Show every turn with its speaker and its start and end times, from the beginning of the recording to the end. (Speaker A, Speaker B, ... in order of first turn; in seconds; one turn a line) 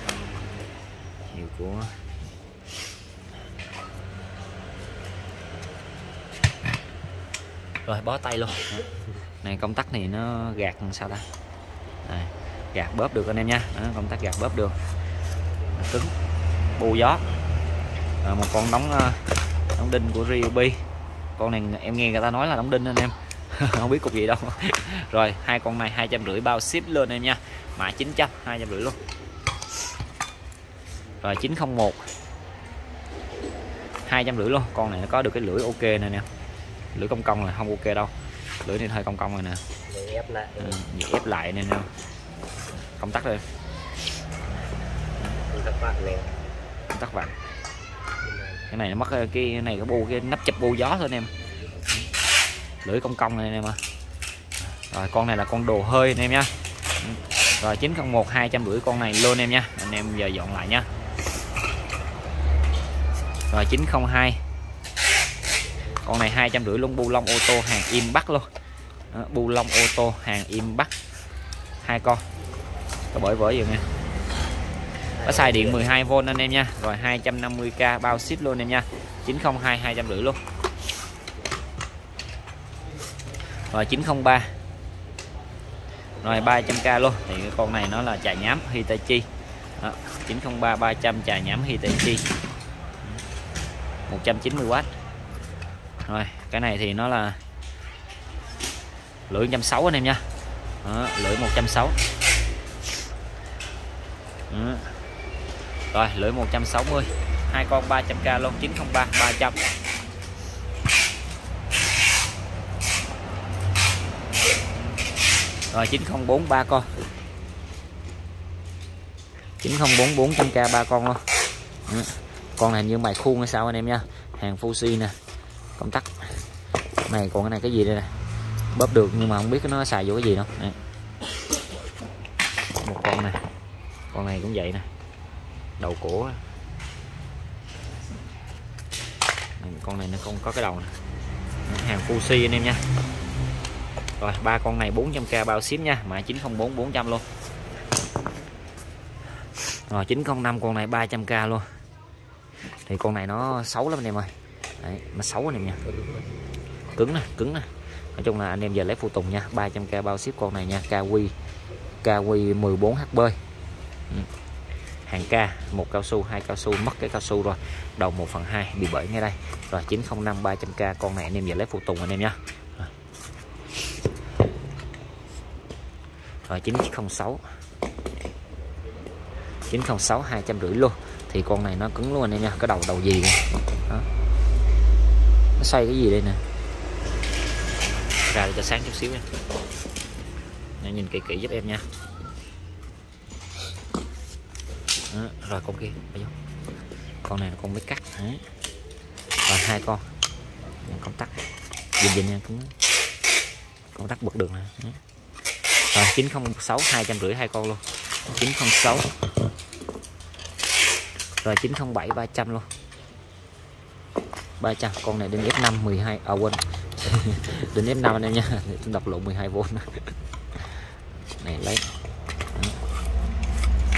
Speaker A: 1.3-2.0
Speaker A: 7.8-8.8
Speaker A: 9.4-11.3
Speaker A: 12.0-14.8
Speaker A: 15.7-16.1
Speaker A: 16.7-17.2
Speaker A: 18.2-19.2
Speaker A: 19.8-20.8
Speaker A: 21.4-29.0
Speaker A: 31.2-32.1
Speaker A: 34.0-36.3
Speaker A: 36.9-38.1
Speaker A: 38.6-39.6
Speaker B: 39.9-40.8
Speaker A: 40.6-41.9
Speaker A: 43.0-43.4
Speaker B: 45.5-46.4
Speaker A: 46.9-47.3
Speaker B: 48.2-48.7
Speaker A: 48.7-51.3
Speaker A: 52.8-53.8
Speaker A: 54.9-60.9
Speaker A: 63.5-64.4
Speaker A: 66.0-68.5
Speaker A: 69.1-70.9
Speaker A: 71.8-72.2
Speaker A: 73.1-73.9
Speaker B: 75.1-76.0
Speaker A: 75.2-80.4
Speaker A: 83.7-84.5
Speaker A: 86.2-89.3
Speaker A: 89.8-92.3
Speaker A: 94.1-94.9
Speaker A: 96.0-97.4
Speaker A: 99.3-100.2
Speaker A: 100.8-102.0
Speaker A: 104.5-104.9
Speaker A: 105.9-109.6
Speaker A: 115.7-116.9
Speaker A: 119.6-121.2
Speaker A: 121.9-125.2
Speaker A: 125.8-126.4
Speaker A: 127.1-128.1
Speaker A: 128.7-130.8
Speaker A: 132.8-133.4
Speaker A: 134.1-134.9
Speaker A: 135.8-136.4
Speaker A: 139.6-140.9
Speaker A: 141.7-142.8
Speaker A: 144.2-147.2
Speaker A: 149.9-151.7
Speaker A: 152.8-155.8
Speaker B: 155.8-156.4
Speaker A: 156.9-161.3
Speaker A: 162.0-163.4
Speaker A: 165.1-172.9
Speaker A: 176.5-177.4
Speaker A: 179.7-184.1
Speaker A: 185.6-186.4
Speaker A: 188.3-189.3
Speaker A: 190.8-191.8
Speaker A: 195.1-196.3
Speaker A: 197.2-198.4
Speaker A: 199.5-200.1
Speaker A: 200.8-201.3
Speaker A: 202.0-202.7
Speaker A: 203.9-205.0
Speaker A: 205.9-207.8
Speaker A: 208.3-209.1
Speaker A: 211.4-212.7
Speaker A: 214.6-220.1
Speaker A: 221.4-221.9